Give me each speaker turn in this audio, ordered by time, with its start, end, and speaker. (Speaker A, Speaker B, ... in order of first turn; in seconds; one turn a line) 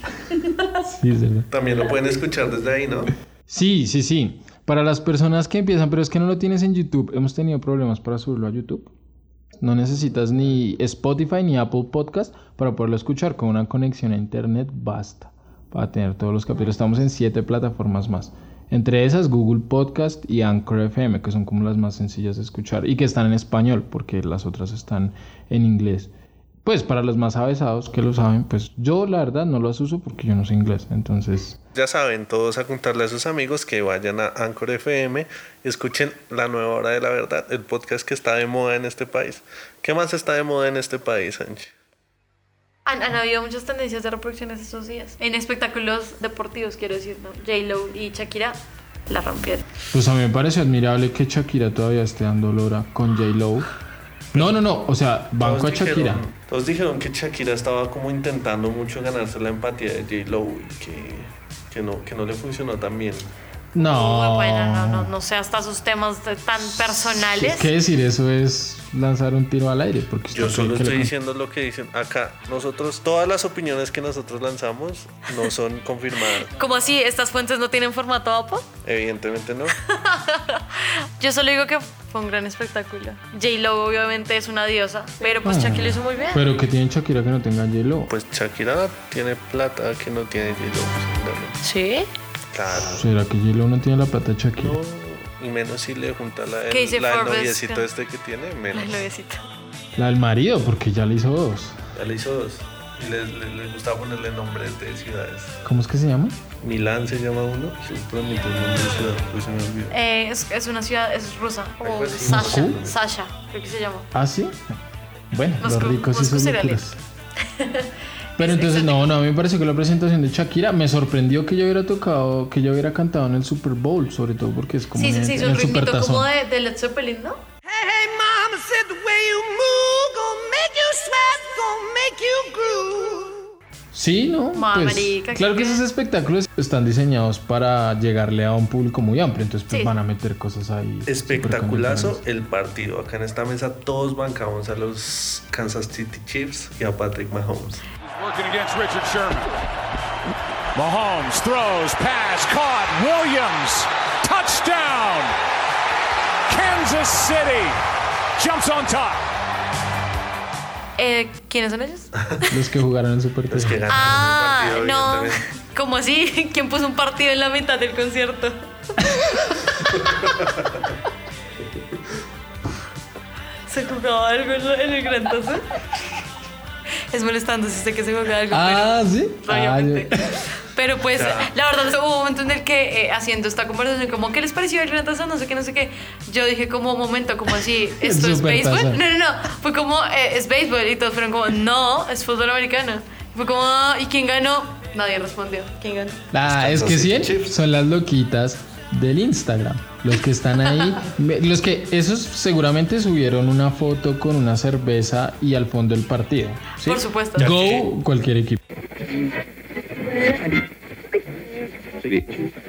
Speaker A: 0.8-1.5
Speaker B: 1.5-3.1
Speaker A: 3.5-8.9
Speaker A: 9.6-26.1
Speaker A: 26.6-31.6
Speaker B: 31.7-41.7
Speaker C: 42.9-49.6
Speaker A: 49.9-53.7
Speaker A: 54.3-56.2
Speaker B: 54.3-54.6
Speaker B: 55.4-63.3
Speaker A: 63.7-65.1
Speaker C: 63.7-67.7
Speaker A: 66.7-71.1
Speaker B: 70.3-76.5
Speaker C: 76.5-78.7
Speaker B: 78.8-79.7
Speaker C: 79.8-86.4
Speaker A: 85.4-88.1
Speaker B: 88.1-91.6
Speaker C: 91.6-92.1
Speaker B: 92.5-93.1
Speaker A: 92.7-94.8
Speaker B: 94.6-99.1
Speaker C: 96.7-97.8
Speaker C: 98.7-99.4
Speaker A: 100.0-101.8
Speaker B: 101.9-105.5
Speaker A: 105.6-106.4
Speaker B: 106.6-109.9
Speaker C: 109.9-114.1
Speaker B: 111.8-113.0
Speaker A: 112.2-112.8
Speaker A: 114.1-114.7
Speaker A: 115.3-117.0
Speaker C: 115.6-116.8
Speaker C: 117.5-119.2
Speaker A: 118.4-126.3
Speaker C: 124.9-127.4
Speaker D: 127.7-133.4
Speaker A: 133.9-142.2
Speaker C: 134.5-135.8
Speaker C: 139.7-139.9
Speaker B: 141.1-147.8
Speaker E: 148.1-149.5
Speaker E: 150.7-155.3
Speaker E: 156.5-157.8
Speaker E: 158.4-159.3
Speaker C: 161.0-162.1
Speaker A: 162.5-164.2
Speaker B: 163.5-165.4
Speaker C: 163.9-168.6
Speaker C: 173.7-175.6
Speaker C: 177.1-196.2
Speaker A: 178.5-180.4
Speaker B: 181.1-181.5
Speaker A: 188.0-189.0
Speaker A: 196.3-208.6
Speaker B: 196.4-197.6
Speaker C: 206.8-207.5
Speaker B: 207.4-207.9